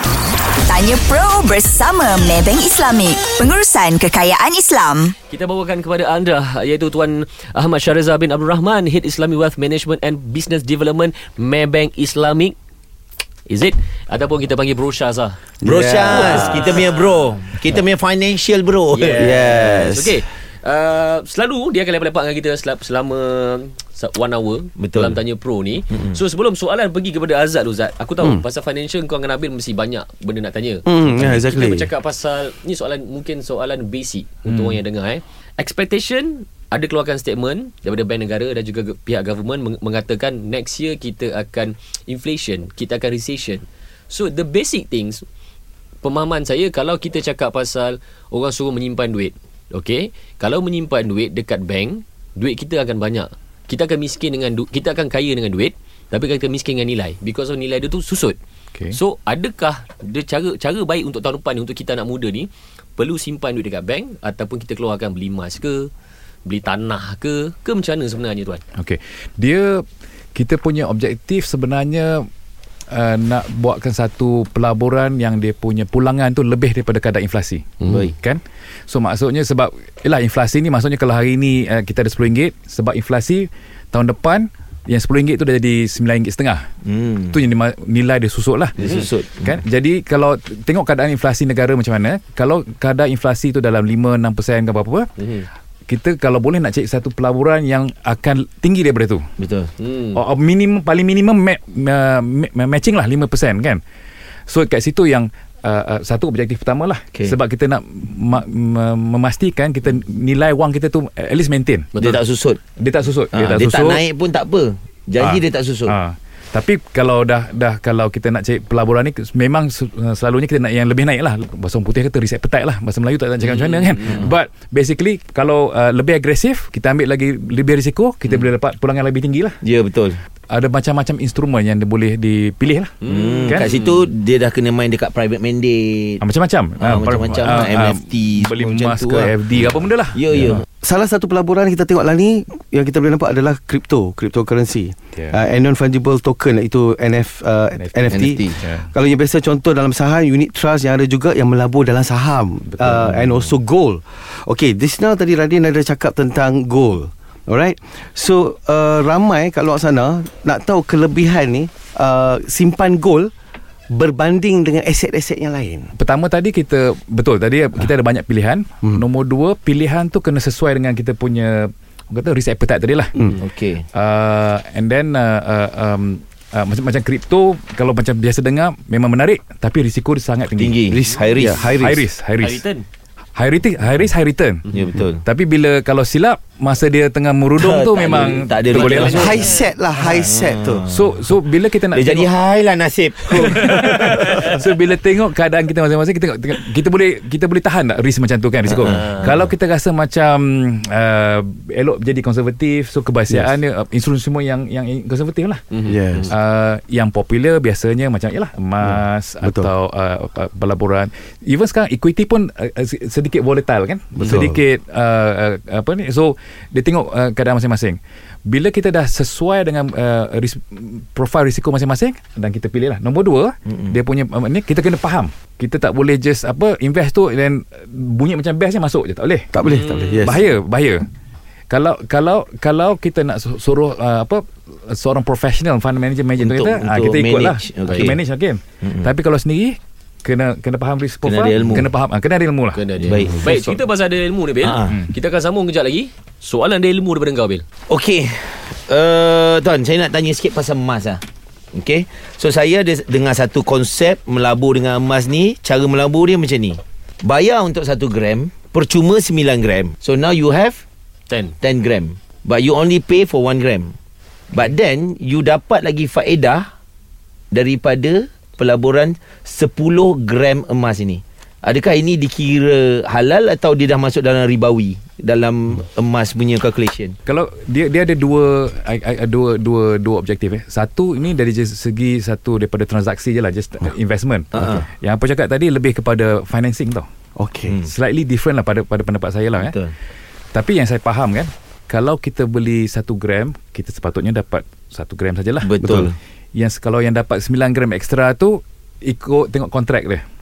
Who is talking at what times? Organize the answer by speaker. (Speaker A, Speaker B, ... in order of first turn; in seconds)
Speaker A: 0.7-5.2
Speaker B: 5.3-12.6, 13.5-15.4, 16.1-17.4, 18.9-45.2, 46.0-58.4, 58.9-65.9, 66.5-68.6, 77.8-78.1, 88.8-89.1, 95.2-95.5, 99.8-100.2, 123.5-124.3, 133.0-134.1, 182.4-182.9, 188.7-189.7, 198.9-199.4, 205.7-206.3, 229.6-230.4, 242.7-247.7, 261.3-261.6
Speaker C: 15.6-16.8, 19.1-20.2, 30.9-31.9, 140.8-163.3, 163.9-165.9, 180.9-182.0, 189.1-190.9, 205.9-206.3, 208.8-209.7, 214.2-214.6, 229.5-230.5, 287.4-287.8, 295.8-296.1
Speaker D: 15.6-19.5, 24.8-25.2, 25.9-26.2, 77.9-78.1, 86.8-87.4, 88.8-89.6, 99.4-99.7, 112.0-112.6, 113.3-116.0, 129.6-130.2, 133.1-136.2, 136.8-140.7, 148.1-148.7, 173.4-173.9, 180.6-181.7, 184.7-185.2, 187.6-189.5, 190.0-191.3, 191.9-194.3, 198.7-199.5, 223.7-224.0, 236.4-238.2, 238.8-239.1, 241.2-241.9, 243.1-243.4, 244.6-245.0, 247.9-251.2, 251.7-260.8, 261.6-263.9, 264.5-266.7, 267.5-277.2, 284.5-284.9, 287.7-287.9, 289.6-289.9, 295.6-296.1
Speaker E: 34.5-34.8, 68.8-69.8, 70.3-72.3, 72.9-86.7, 87.3-95.1, 95.9-99.3, 100.1-103.8, 104.5-112.2, 112.8-114.0, 115.2-129.6, 130.5-132.9, 136.2-140.7, 147.7-148.9, 152.7-153.6, 166.0-173.2, 173.9-180.9, 181.8-182.6, 183.4-184.7, 185.2-189.4, 190.9-192.3, 193.3-205.6, 206.3-229.5, 230.3-231.1, 231.7-242.8, 243.4-243.8, 277.3-287.1, 287.9-289.8, 290.5-295.7, 296.6-300.2